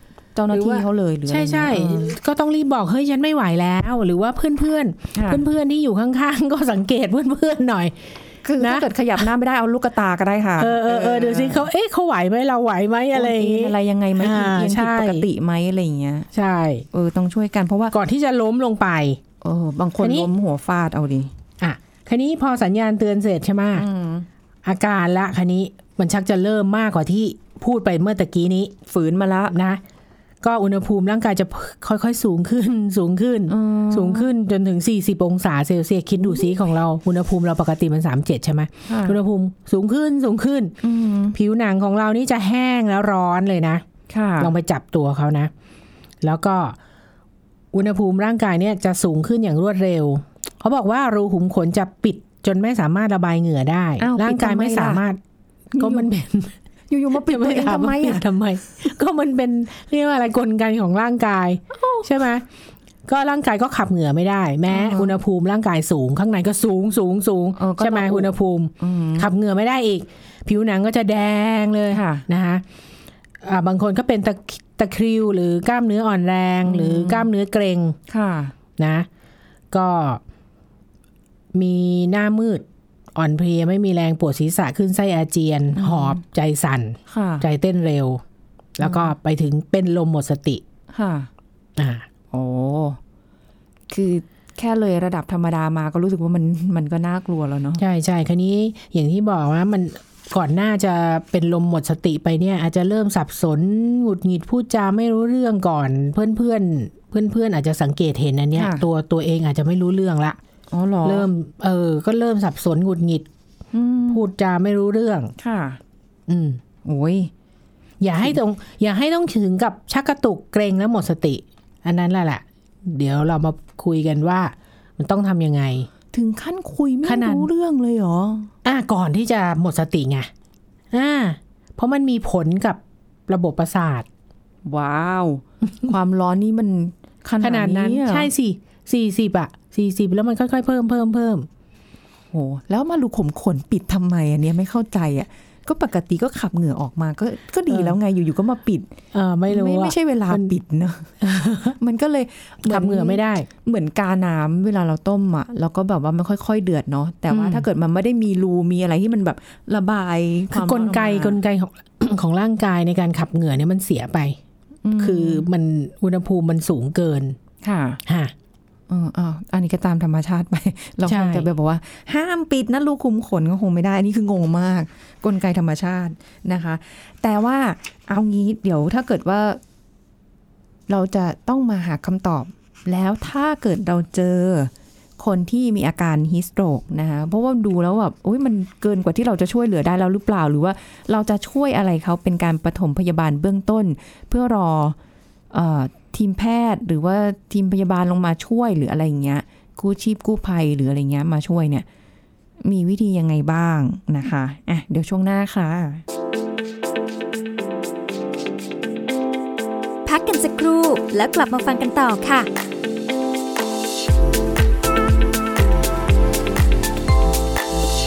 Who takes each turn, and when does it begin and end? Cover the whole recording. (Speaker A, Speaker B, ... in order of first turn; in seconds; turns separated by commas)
Speaker A: 0.3-2.1, Speaker B: 0.5-8.1, Speaker A: 5.1-5.4, Speaker A: 8.4-11.7, Speaker B: 8.6-8.9, Speaker B: 10.6-15.2, Speaker A: 13.1-16.3, Speaker B: 16.3-16.9, Speaker A: 16.9-17.9, Speaker B: 17.9-19.2, Speaker A: 19.4-21.3, Speaker B: 20.0-20.3, Speaker B: 21.6-23.9, Speaker A: 23.7-24.3, Speaker B: 24.6-28.7, Speaker A: 28.9-29.6, Speaker B: 29.5-29.8, Speaker B: 30.4-40.8, Speaker A: 33.5-34.3, Speaker A: 36.2-36.5, Speaker A: 38.9-39.2, Speaker A: 40.8-41.4, Speaker B: 41.4-43.8, Speaker A: 44.1-44.5, Speaker B: 44.4-45.5, Speaker B: 46.2-46.8, Speaker B: 47.7-55.2, Speaker A: 54.0-55.0, Speaker A: 55.7-56.1, Speaker B: 55.8-56.5, Speaker A: 56.9-58.2, Speaker B: 57.1-62.5, Speaker A: 61.7-62.1, Speaker B: 63.1-72.6, Speaker A: 64.7-65.2, Speaker A: 67.6-69.3, Speaker A: 71.9-72.2, Speaker B: 73.4-78.0, Speaker A: 76.6-77.3, Speaker A: 78.1-78.5, Speaker B: 78.8-79.1, Speaker B: 79.7-80.2, Speaker B: 81.5-88.2, Speaker A: 85.8-86.2, Speaker A: 87.1-87.5, Speaker B: 88.8-90.6, Speaker A: 88.8-89.1, Speaker A: 90.9-91.3, Speaker B: 91.8-92.0, Speaker A: 92.3-93.0, Speaker A: 93.9-97.8, Speaker B: 97.8-110.4, Speaker A: 108.5-108.8, Speaker A: 110.7-111.3, Speaker B: 111.0-113.3, Speaker A: 113.7-114.2, Speaker B: 114.1-115.3, Speaker A: 115.4-115.8, Speaker B: 116.3-116.6, Speaker A: 116.8-117.3, Speaker B: 118.0-125.9, Speaker A: 126.1-128.5, Speaker B: 127.0-127.5, Speaker B: 128.6-130.3, Speaker B: 130.9-134.1, Speaker A: 134.7-138.3, Speaker B: 137.4-141.5, Speaker A: 142.3-148.9, Speaker B: 147.7-148.0, Speaker B: 149.1-150.5, Speaker A: 149.5-161.4, Speaker B: 151.2-151.8, Speaker B: 152.6-153.5, Speaker B: 157.3-157.7, Speaker B: 160.5-164.4, Speaker A: 164.8-165.5, Speaker B: 165.0-167.4, Speaker A: 167.6-168.0, Speaker B: 168.1-168.3, Speaker A: 168.9-179.6, Speaker B: 171.1-171.5, Speaker A: 180.9-195.0, Speaker A: 195.5-201.9, Speaker A: 202.6-206.0, Speaker C: 210.1-212.5